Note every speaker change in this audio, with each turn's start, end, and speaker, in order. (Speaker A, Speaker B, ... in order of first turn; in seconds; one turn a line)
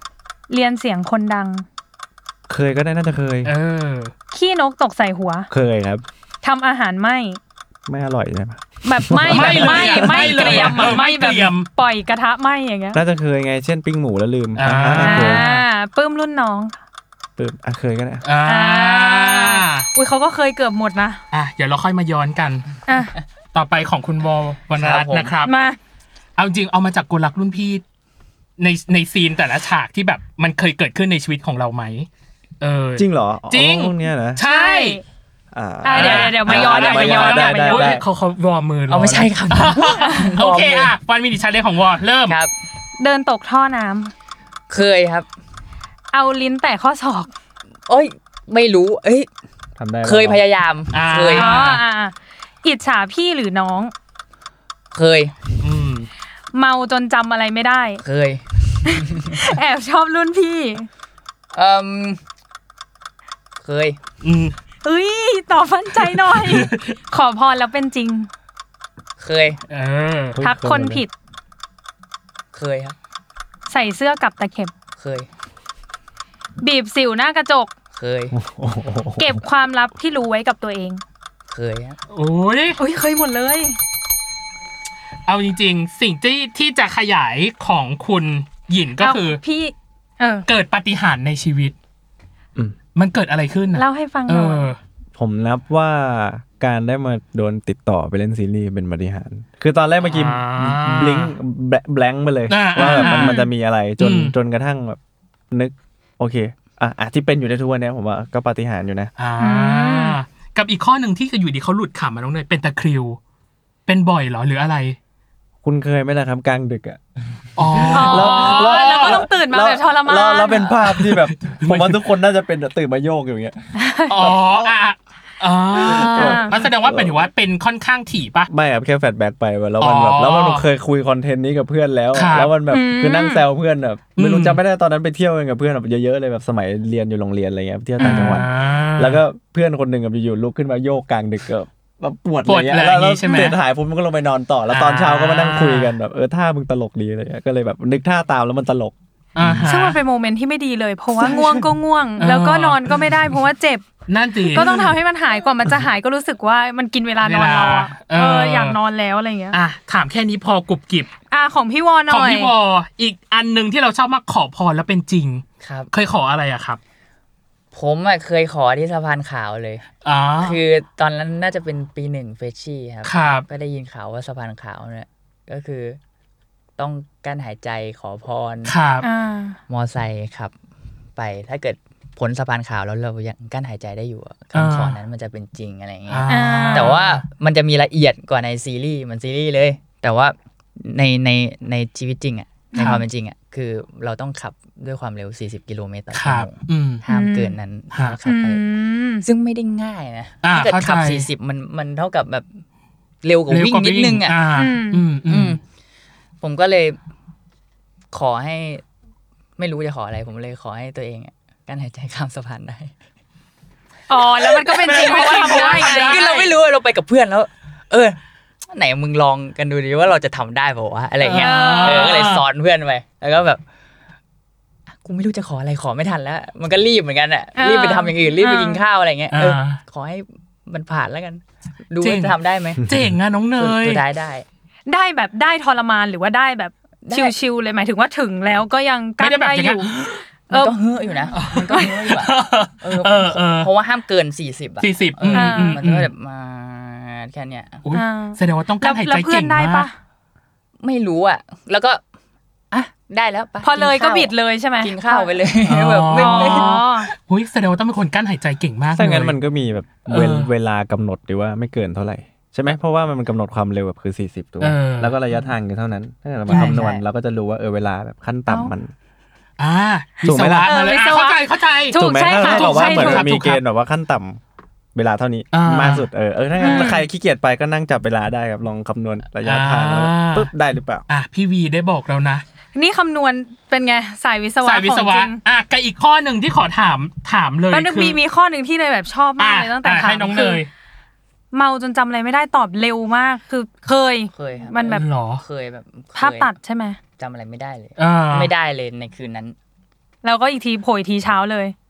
Speaker A: 0.5-1.6
Speaker B: 2.5-3.5
Speaker C: 3.4-4.1
Speaker A: 4.3-5.5
Speaker B: 5.5-6.0
Speaker A: 6.4-7.4
Speaker B: 7.9-11.0
Speaker A: 8.8-13.0
Speaker C: 9.3-11.7
Speaker B: 12.9-15.4
Speaker C: 14.6-15.7
Speaker A: 14.9-16.8
Speaker B: 17.4-18.2
Speaker C: 18.2-19.9
Speaker A: 18.4-21.2
Speaker C: 21.3-22.7
Speaker A: 22.9-23.2
Speaker C: 23.5-25.5
Speaker D: 24.7-25.3
Speaker A: 25.4-25.8
Speaker C: 26.4-27.8
Speaker C: 28.6-32.1
Speaker C: 32.6-35.0
Speaker B: 33.0-34.4
Speaker A: 34.4-35.0
Speaker B: 35.5-38.0
Speaker A: 35.8-38.0
Speaker C: 35.9-42.4
Speaker D: 38.9-40.9
Speaker A: 43.0-44.1
Speaker D: 44.7-45.3
Speaker A: 46.1-47.3
Speaker D: 47.9-49.3
Speaker B: 49.8-50.4
Speaker D: 50.0-51.6
Speaker C: 50.9-51.8
Speaker A: 51.3-53.9
Speaker D: 54.9-55.4
Speaker C: 55.6-56.1
Speaker A: 56.5-58.0
Speaker D: 58.0-59.4
Speaker A: 58.9-60.9
Speaker D: 61.5-62.2
Speaker D: 63.6-64.0
Speaker C: 64.2-64.5
Speaker A: 64.8-68.3
Speaker C: 65.9-66.9
Speaker D: 69.2-69.6
Speaker C: 69.7-70.4
Speaker B: 70.3-71.0
Speaker A: 70.4-71.1
Speaker D: 72.5-73.0
Speaker A: 73.7-74.7
Speaker D: 75.0-75.3
Speaker A: 76.6-77.7
Speaker D: 77.9-78.3
Speaker B: 78.3-79.4
Speaker A: 79.2-81.0
Speaker D: 81.5-82.0
Speaker C: 82.1-82.8
Speaker A: 82.8-83.8
Speaker C: 85.3-89.4
Speaker A: 89.0-90.5
Speaker C: 90.5-91.7
Speaker C: 92.9-94.8
Speaker A: 93.7-94.7
Speaker B: 95.2-105.0
Speaker C: 100.0-101.3
Speaker C: 102.5-103.4
Speaker A: 102.8-103.5
Speaker C: 104.0-104.3
Speaker B: 105.5-109.1
Speaker C: 109.2-113.2
Speaker A: 109.4-110.2
Speaker C: 113.9-115.0
Speaker B: 115.6-117.0
Speaker C: 117.5-119.2
Speaker B: 117.6-123.6
Speaker A: 117.9-120.8
Speaker C: 120.8-122.0
Speaker A: 123.8-124.3
Speaker C: 124.1-128.5
Speaker B: 124.1-124.7
Speaker A: 125.7-126.6
Speaker B: 125.7-127.3
Speaker B: 128.5-149.7
Speaker C: 129.8-130.7
Speaker C: 132.1-132.5
Speaker A: 132.7-133.4
Speaker C: 134.2-134.6
Speaker C: 138.0-139.2
Speaker A: 138.0-138.4
Speaker C: 142.4-143.6
Speaker A: 143.3-143.5
Speaker C: 144.7-145.9
Speaker C: 149.3-150.0
Speaker A: 149.7-153.8
Speaker B: 151.2-151.6
Speaker C: 152.2-153.2
Speaker C: 154.1-154.9
Speaker A: 154.5-159.6
Speaker C: 157.2-158.8
Speaker C: 159.5-161.1
Speaker A: 161.3-162.5
Speaker C: 162.1-166.8
Speaker D: 165.6-165.9
Speaker D: 167.7-169.8
Speaker C: 170.0-170.6
Speaker D: 170.4-176.0
Speaker C: 173.0-173.4
Speaker D: 176.8-178.7
Speaker C: 178.7-179.1
Speaker A: 179.0-179.6
Speaker D: 179.7-180.5
Speaker D: 181.2-198.6
Speaker C: 184.5-184.9
Speaker C: 186.1-187.2
Speaker A: 186.3-186.9
Speaker A: 192.7-193.0
Speaker C: 192.8-193.0
Speaker C: 196.1-197.0
Speaker A: 197.1-197.6
Speaker C: 197.9-198.2
Speaker A: 198.2-199.2
Speaker D: 199.2-202.6
Speaker C: 200.4-201.3
Speaker D: 203.2-204.4
Speaker C: 203.5-205.6
Speaker A: 204.5-205.1
Speaker D: 205.3-205.6
Speaker D: 206.4-207.0
Speaker D: 208.1-208.8
Speaker D: 209.6-212.9
Speaker A: 214.1-216.2
Speaker D: 214.4-218.2
Speaker C: 214.7-216.5
Speaker D: 218.7-223.6
Speaker C: 221.2-222.4
Speaker A: 221.4-222.2
Speaker D: 225.0-232.8
Speaker A: 227.6-228.8
Speaker C: 229.3-229.8
Speaker C: 232.0-234.0
Speaker D: 233.6-234.4
Speaker A: 234.9-239.9
Speaker D: 237.0-237.3
Speaker C: 239.2-240.2
Speaker A: 240.5-241.9
Speaker D: 240.5-247.8
Speaker C: 241.3-243.7
Speaker C: 244.8-246.1
Speaker A: 245.3-245.8
Speaker C: 247.8-249.9
Speaker A: 247.9-249.9
Speaker D: 250.8-252.0
Speaker D: 252.7-256.7
Speaker A: 253.6-255.3
Speaker C: 255.7-259.4
Speaker A: 256.1-257.1
Speaker B: 258.9-268.9
Speaker C: 260.1-260.5
Speaker C: 264.6-265.1
Speaker C: 266.5-266.8
Speaker D: 266.5-267.0
Speaker A: 268.5-268.7
Speaker C: 269.6-273.6
Speaker B: 270.2-270.7
Speaker A: 270.6-273.4
Speaker B: 271.9-274.4
Speaker B: 274.9-281.0
Speaker C: 275.5-276.1
Speaker A: 276.6-277.0
Speaker C: 276.6-276.9
Speaker C: 279.4-280.5
Speaker C: 281.1-282.4
Speaker A: 282.7-285.4
Speaker C: 284.6-288.2
Speaker A: 287.7-290.6
Speaker C: 289.4-290.7
Speaker A: 291.5-295.1
Speaker D: 294.3-296.5
Speaker C: 294.9-295.4
Speaker A: 296.1-297.0
Speaker D: 297.2-299.6
Speaker C: 298.0-298.5
Speaker A: 300.2-301.7